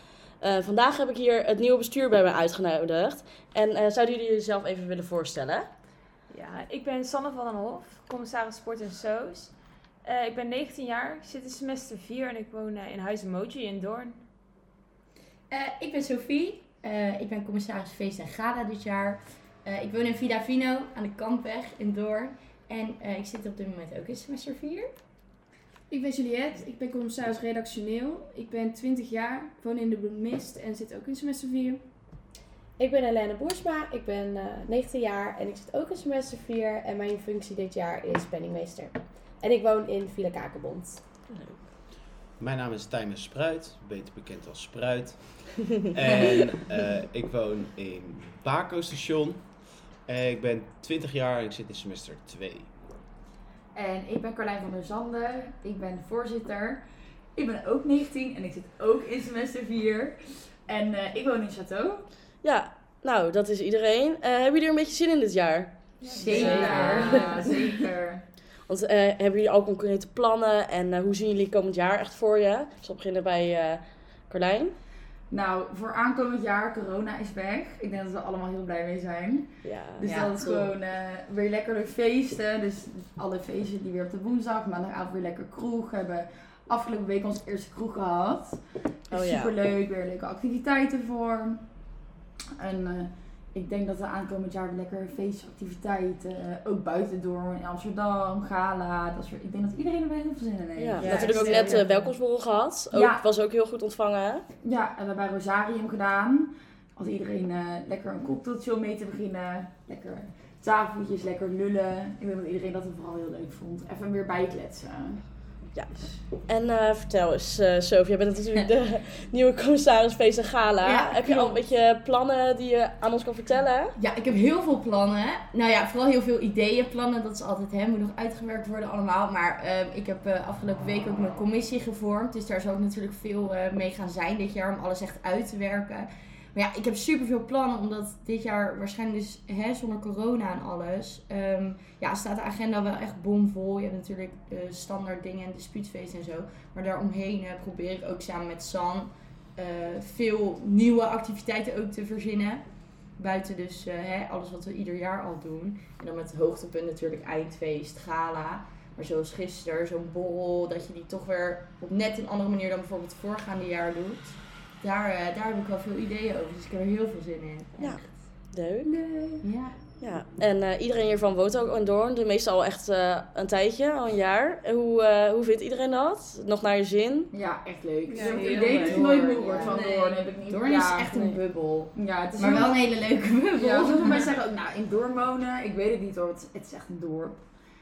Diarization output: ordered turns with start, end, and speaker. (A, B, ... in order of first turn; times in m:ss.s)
0:00.4-0:05.7 A
0:06.3-0:09.5 B
0:10.0-0:14.2 B
0:15.5-0:24.9 C
0:25.9-0:31.8 D
0:32.8-0:41.0 E
0:41.3-0:41.6 A
0:42.4-0:49.5 F
0:50.1-0:52.7 F
0:53.7-0:56.8 G
0:57.4-1:00.2 G
1:00.7-1:02.0 G
1:02.4-1:05.7 A
1:06.0-1:07.2 B
1:06.1-1:07.5 D
1:06.1-1:07.5 C
1:06.1-1:08.2 G
1:06.4-1:07.0 A
1:08.7-1:14.8 A
1:15.3-1:28.6 G
1:19.6-1:20.0 A
1:20.0-1:20.7 C
1:29.1-1:31.6 G
1:29.1-1:29.5 A
1:32.6-1:41.8 G
1:40.8-1:44.4 A
1:41.1-1:41.7 D
1:41.1-1:41.7 E
1:42.9-1:43.2 G
1:44.6-1:55.2 G
1:56.5-2:03.9 A
2:00.8-2:01.6 C
2:04.0-2:32.6 C
2:33.2-2:48.1 C
2:47.8-2:48.9 A
2:48.8-2:49.7 G
2:49.4-2:49.7 C
2:50.0-2:57.3 A
2:57.3-3:01.1 G
2:58.1-2:59.0 B
2:58.1-3:00.1 D
2:58.2-3:04.3 C
3:01.9-3:02.9 G
3:03.6-3:07.4 G